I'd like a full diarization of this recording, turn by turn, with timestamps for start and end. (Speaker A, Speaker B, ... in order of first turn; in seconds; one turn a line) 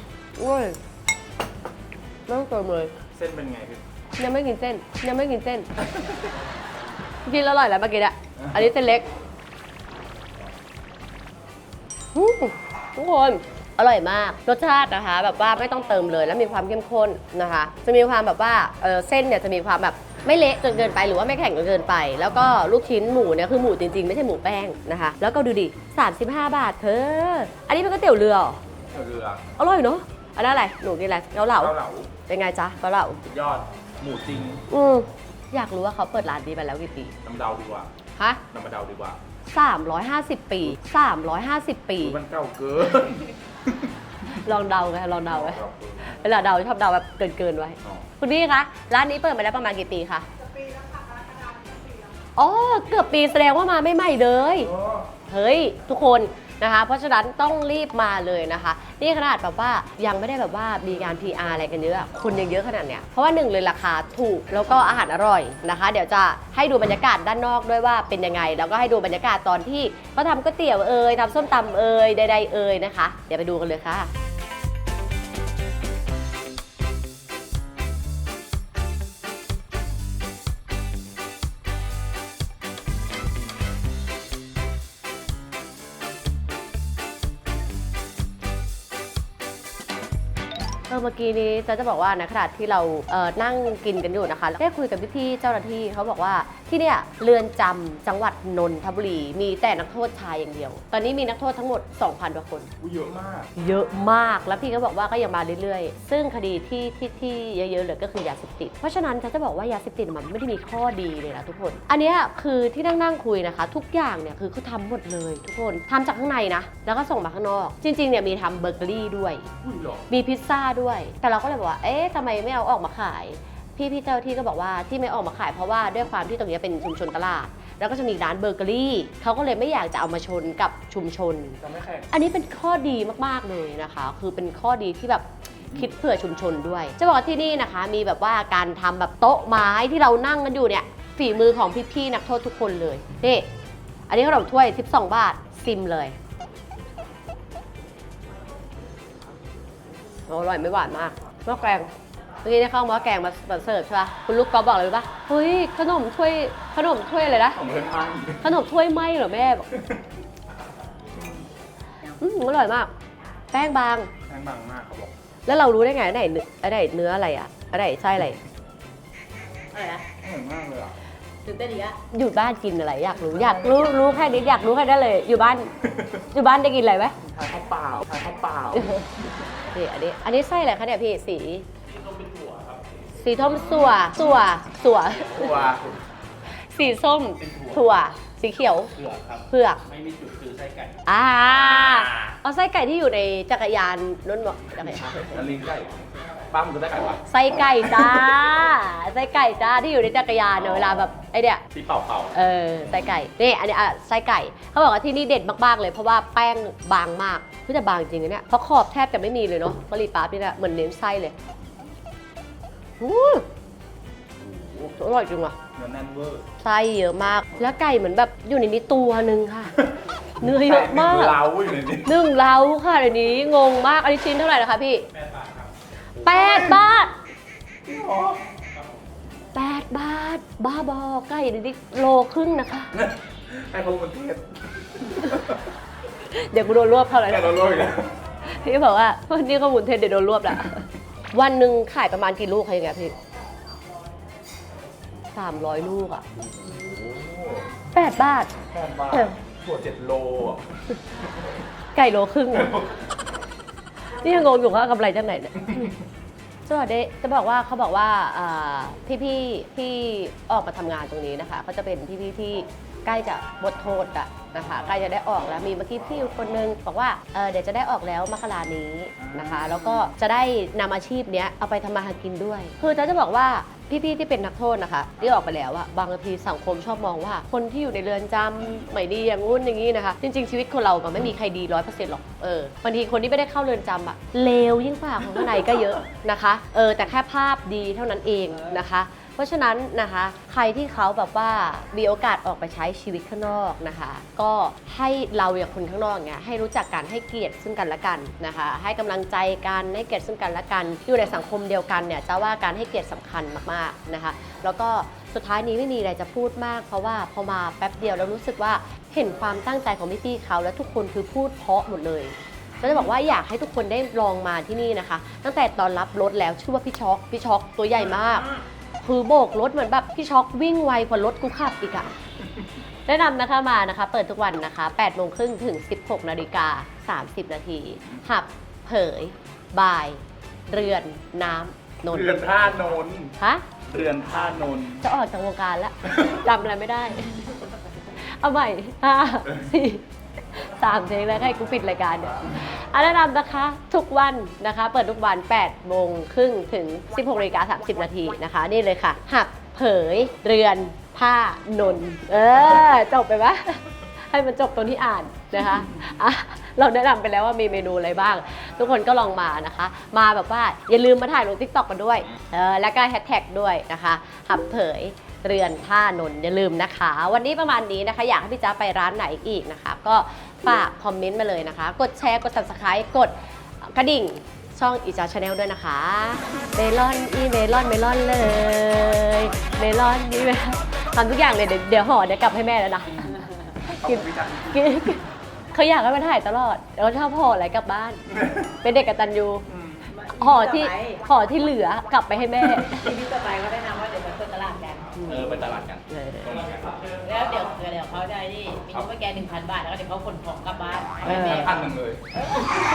Speaker A: 0.4-0.8
Speaker A: 2.3-2.9
Speaker B: 3.1-3.8
Speaker A: 4.2-5.7
Speaker B: 6.0-6.3
Speaker A: 7.3-9.1
Speaker B: 8.4-8.7
Speaker A: 12.2-28.6
Speaker B: 28.9-29.4
Speaker A: 29.6-31.7
Speaker B: 31.6-32.1
Speaker A: 32.3-33.2
Speaker B: 33.2-34.6
Speaker A: 34.7-37.1
Speaker B: 37.2-37.9
Speaker A: 38.2-38.4
Speaker B: 38.5-39.2
Speaker A: 39.5-42.2
Speaker B: 42.0-43.9
Speaker A: 44.4-50.2
Speaker B: 45.3-46.1
Speaker A: 52.4-54.7
Speaker B: 54.6-55.1
Speaker A: 55.3-74.1
Speaker A: 90.9-102.7
Speaker B: 102.8-103.5
Speaker A: 103.6-119.5
Speaker B: 119.6-120.0
Speaker A: 120.1-143.4
Speaker B: 131.7-132.0
Speaker B: 135.6-135.9
Speaker A: 144.1-146.2
Speaker A: 150.3-151.9
Speaker A: 152.4-157.6
Speaker B: 157.5-158.4
Speaker A: 158.4-159.7
Speaker B: 161.2-161.5
Speaker A: 162.2-162.9
Speaker A: 163.5-164.1
Speaker B: 164.3-165.1
Speaker A: 165.5-168.4
Speaker C: 169.7-170.1
Speaker B: 170.2-171.0
Speaker C: 171.4-172.0
Speaker A: 172.0-175.7
Speaker B: 173.1-174.8
Speaker B: 175.8-176.3
Speaker A: 176.3-177.2
Speaker B: 177.3-179.4
Speaker A: 178.8-179.0
Speaker A: 179.7-181.7
Speaker B: 182.0-182.8
Speaker A: 183.2-185.7
Speaker B: 183.5-184.5
Speaker B: 185.1-186.0
Speaker A: 186.6-189.0
Speaker B: 189.0-192.3
Speaker A: 189.5-189.8
Speaker A: 191.1-195.4
Speaker B: 195.0-197.2
Speaker A: 197.2-201.6
Speaker B: 197.8-198.3
Speaker B: 200.6-201.1
Speaker B: 201.7-202.3
Speaker A: 202.3-211.3
Speaker A: 213.0-213.5
Speaker B: 214.4-214.9
Speaker A: 215.0-215.6
Speaker B: 215.8-216.4
Speaker A: 216.6-219.7
Speaker B: 219.8-222.1
Speaker A: 220.4-221.4
Speaker A: 222.1-225.0
Speaker A: 226.2-227.1
Speaker B: 226.2-226.8
Speaker B: 227.9-228.4
Speaker A: 229.5-232.9
Speaker B: 232.9-235.6
Speaker A: 236.3-237.6
Speaker B: 237.2-238.1
Speaker A: 238.5-243.1
Speaker A: 245.3-246.2
Speaker B: 246.4-247.7
Speaker A: 247.9-248.5
Speaker B: 248.7-250.7
Speaker A: 249.1-249.4
Speaker A: 251.9-252.8
Speaker A: 254.1-255.9
Speaker A: 256.7-318.5
Speaker B: 269.2-270.1
Speaker B: 285.3-285.8
Speaker B: 312.8-313.1
Speaker A: 319.0-322.1
Speaker A: 323.1-332.8
Speaker B: 332.1-333.4
Speaker A: 333.4-333.6
Speaker B: 333.9-335.0
Speaker A: 335.0-340.0
Speaker A: 340.6-383.4
Speaker B: 383.9-385.0
Speaker A: 384.0-385.2
Speaker A: 385.7-388.2
Speaker B: 388.3-388.7
Speaker A: 388.8-389.7
Speaker B: 389.7-390.1
Speaker C: 390.1-391.2
Speaker A: 390.4-393.2
Speaker C: 393.0-395.1
Speaker A: 395.1-396.6
Speaker B: 395.3-397.2
Speaker C: 397.0-401.9
Speaker B: 401.2-402.7
Speaker A: 401.2-401.8